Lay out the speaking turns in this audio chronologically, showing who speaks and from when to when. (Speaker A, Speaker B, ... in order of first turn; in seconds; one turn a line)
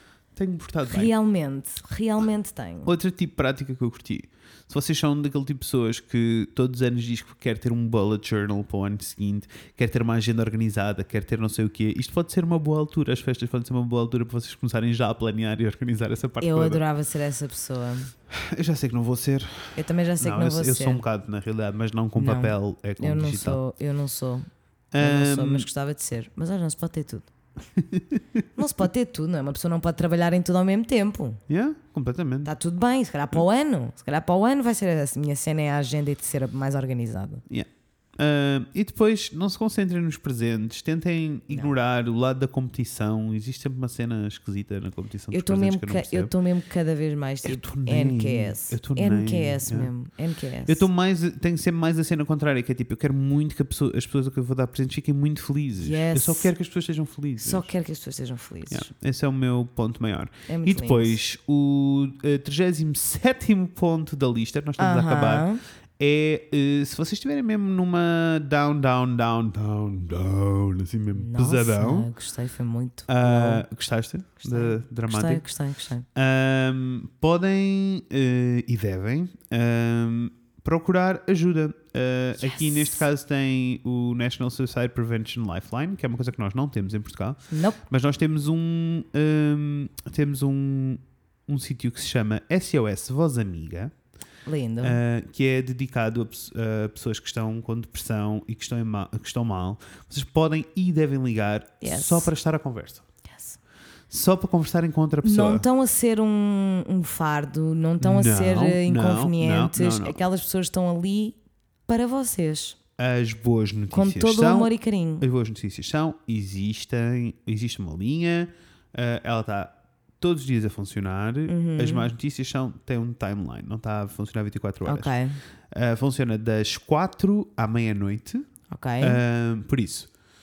Speaker A: 0.3-1.1
Speaker B: 0.9-2.9
Speaker A: 2.9-16.8
Speaker B: 16.4-18.1
Speaker A: 18.3-23.6
Speaker B: 19.8-21.0
Speaker B: 22.2-24.5
Speaker A: 24.9-25.7
Speaker B: 25.0-27.3
Speaker A: 27.8-28.2
Speaker B: 28.6-31.4
Speaker A: 31.5-32.5
Speaker B: 32.5-37.4
Speaker A: 37.5-46.3
Speaker B: 45.3-50.9
Speaker A: 47.4-49.9
Speaker A: 50.7-57.7
Speaker B: 55.8-56.5
Speaker B: 57.4-58.9
Speaker A: 58.7-65.5
Speaker B: 60.5-61.2
Speaker B: 64.8-65.6
Speaker A: 66.0-72.1
Speaker B: 71.1-73.7
Speaker A: 73.1-75.4
Speaker B: 74.4-76.1
Speaker A: 76.2-93.9
Speaker B: 82.4-83.0
Speaker B: 87.5-87.8
Speaker B: 94.5-95.0
Speaker A: 94.8-103.0
Speaker B: 101.8-102.3
Speaker B: 103.3-103.6
Speaker A: 104.1-105.7
Speaker B: 105.2-111.4
Speaker A: 108.0-110.2
Speaker B: 111.9-112.8
Speaker A: 113.0-125.1
Speaker B: 113.9-115.2
Speaker B: 121.5-122.1
Speaker B: 124.8-125.4
Speaker A: 125.7-128.4
Speaker B: 128.7-129.2
Speaker A: 129.0-130.1